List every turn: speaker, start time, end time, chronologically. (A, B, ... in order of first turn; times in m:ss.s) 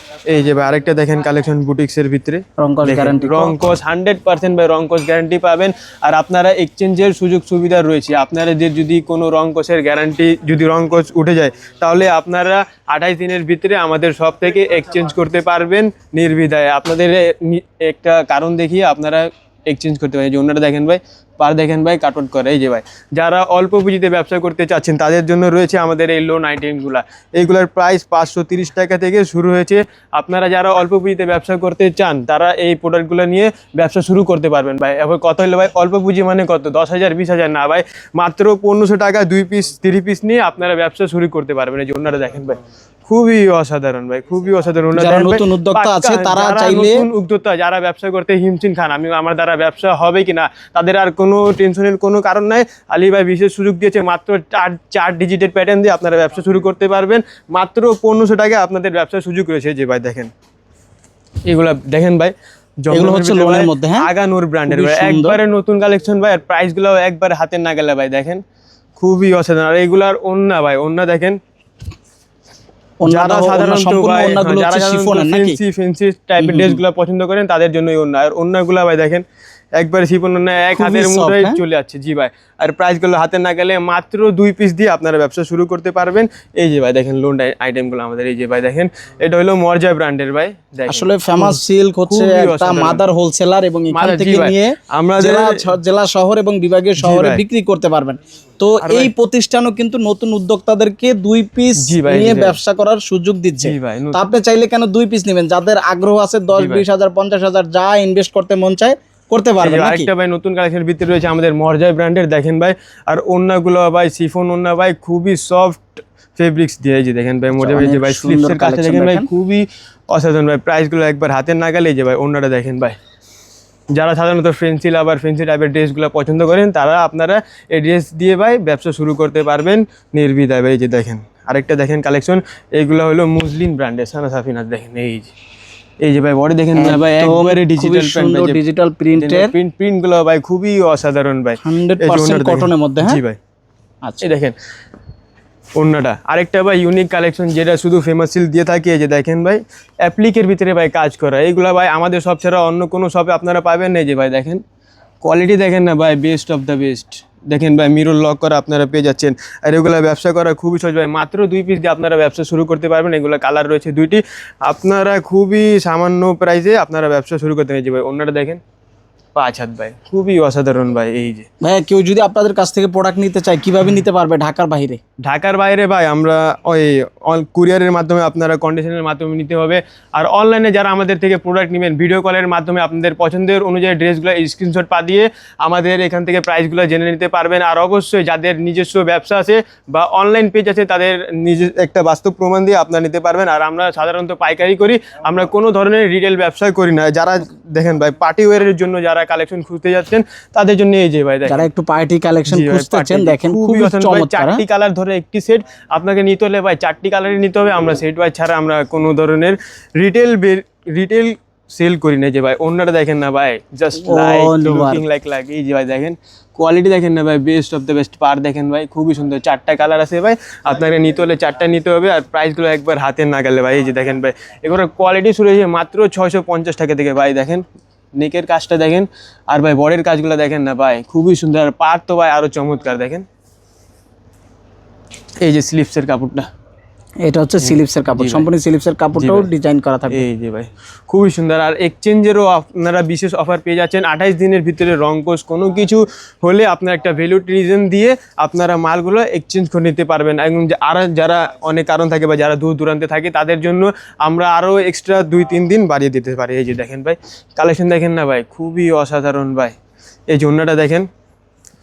0:00.3-1:00.3 A
0:02.6-0:03.7 B
0:44.9-0:47.1 B
1:01.4-1:08.4 A
1:02.9-1:04.1 B
1:04.7-1:05.4 B
1:09.0-1:11.4 A
1:13.0-1:15.6 B
1:13.0-1:19.2 A
1:16.4-1:16.8 B
1:19.8-1:33.0 A
1:20.7-1:21.6 B
1:30.9-1:50.1 B
1:33.9-1:35.7 A
1:37.0-1:37.4 A
1:38.8-1:39.1 A
1:41.8-1:42.6 A
1:43.6-1:44.2 A
1:46.5-1:46.8 A
1:49.6-2:02.9 A
1:57.5-1:59.3 B
2:03.9-2:15.3 A
2:16.0-2:18.6 A
2:16.7-2:19.5 B
2:19.2-2:23.4 A
2:21.6-2:23.2 B
2:24.2-2:24.6 A
2:25.8-2:34.6 A
2:35.2-2:48.6 A
2:49.3-2:51.5 A
2:51.6-2:55.0 B
2:55.2-3:21.6 A
3:21.5-3:24.6 B
3:22.5-3:47.6 A
3:34.0-3:35.0 B
3:48.2-3:53.2 A
3:55.4-3:56.5 A
3:57.2-4:00.2 B
3:57.6-3:58.5 A
3:59.2-3:59.5 A
4:00.1-4:19.8 A
4:20.3-4:21.1 A